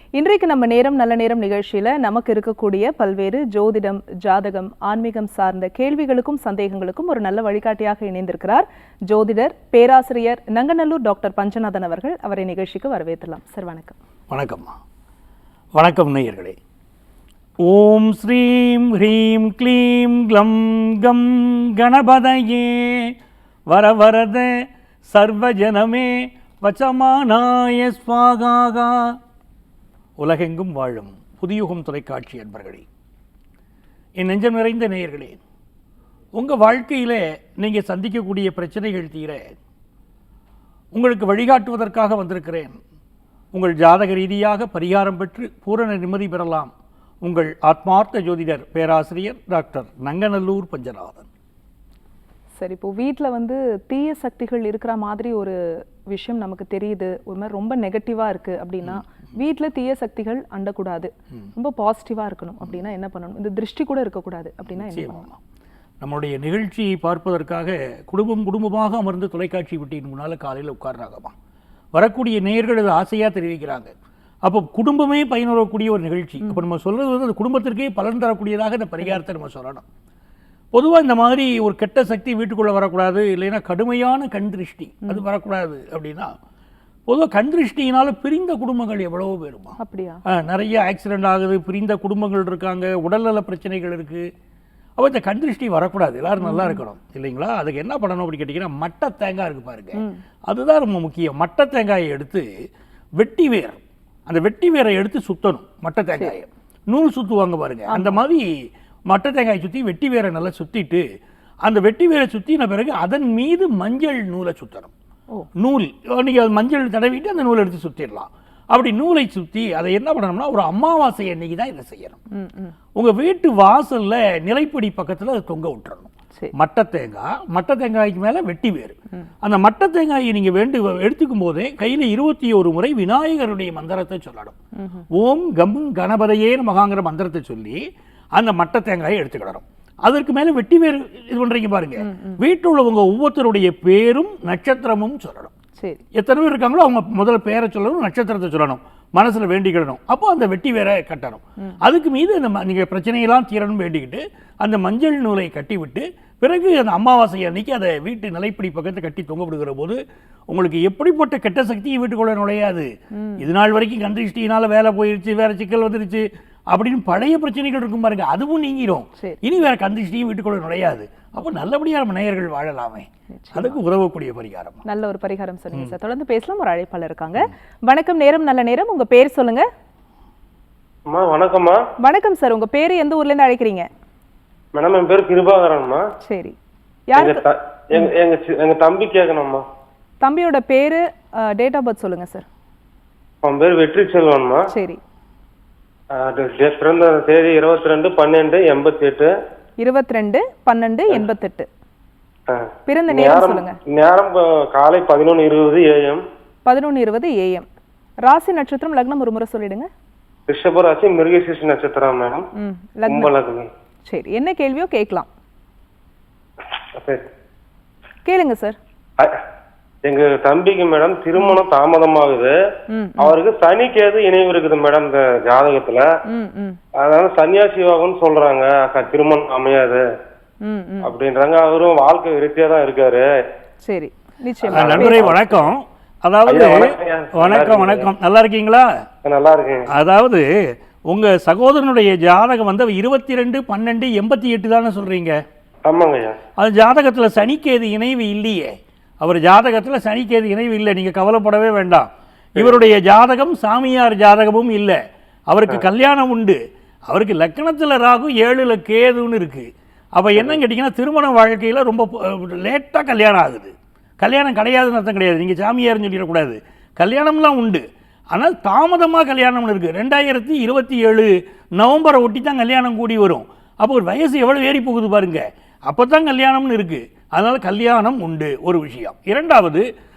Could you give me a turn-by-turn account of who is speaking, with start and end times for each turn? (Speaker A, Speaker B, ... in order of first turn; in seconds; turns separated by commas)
Speaker A: 0.2-14.0, Speaker B: 14.3-14.8, Speaker B: 15.8-16.6, Speaker B: 17.6-23.1, Speaker B: 23.7-24.5, Speaker B: 25.1-29.2, Speaker B: 30.2-32.9, Speaker B: 34.2-35.4, Speaker B: 36.4-39.5, Speaker B: 40.9-42.8, Speaker B: 43.5-46.7, Speaker B: 47.2-51.3, Speaker A: 52.6-55.6, Speaker A: 56.1-65.2, Speaker B: 64.6-65.4, Speaker B: 66.0-71.3, Speaker B: 72.0-73.9, Speaker B: 74.4-79.8, Speaker B: 80.7-86.3, Speaker B: 87.1-89.8, Speaker A: 89.8-90.2, Speaker B: 90.3-94.3, Speaker B: 95.0-102.5, Speaker A: 96.4-96.8, Speaker A: 100.0-100.2, Speaker B: 103.2-108.5, Speaker A: 107.9-108.2, Speaker B: 109.1-111.0, Speaker B: 111.6-114.9, Speaker B: 115.6-122.2, Speaker A: 122.3-122.8, Speaker B: 123.0-134.6, Speaker A: 134.8-135.1, Speaker B: 135.1-137.8, Speaker B: 138.4-145.5, Speaker A: 142.0-142.4, Speaker A: 145.8-146.0, Speaker B: 146.1-174.8, Speaker A: 163.2-163.4, Speaker A: 173.3-173.8, Speaker A: 174.9-179.7, Speaker C: 181.1-181.8, Speaker A: 182.0-183.9, Speaker C: 184.8-186.0, Speaker A: 186.2-186.6, Speaker A: 187.1-187.4, Speaker C: 187.2-189.6, Speaker A: 190.2-192.4, Speaker C: 193.4-194.6, Speaker A: 194.7-195.0, Speaker C: 196.2-199.3, Speaker A: 199.8-201.7, Speaker C: 202.5-206.2, Speaker A: 202.9-203.8, Speaker A: 206.7-207.7, Speaker A: 208.3-209.9, Speaker C: 210.5-212.4, Speaker A: 212.6-213.3, Speaker C: 213.1-213.7, Speaker A: 214.1-215.3, Speaker C: 217.0-217.2, Speaker A: 218.3-218.8, Speaker C: 220.1-222.5, Speaker A: 222.9-223.4, Speaker C: 223.2-226.1, Speaker A: 226.3-226.8, Speaker C: 227.0-230.0, Speaker A: 230.7-231.1, Speaker C: 231.1-233.2, Speaker A: 233.8-235.5, Speaker B: 234.7-238.9, Speaker C: 234.7-235.6, Speaker C: 236.5-238.1, Speaker C: 239.3-239.9, Speaker B: 239.9-240.4, Speaker B: 241.1-245.4, Speaker C: 245.9-246.4, Speaker B: 246.6-279.9, Speaker C: 252.6-252.8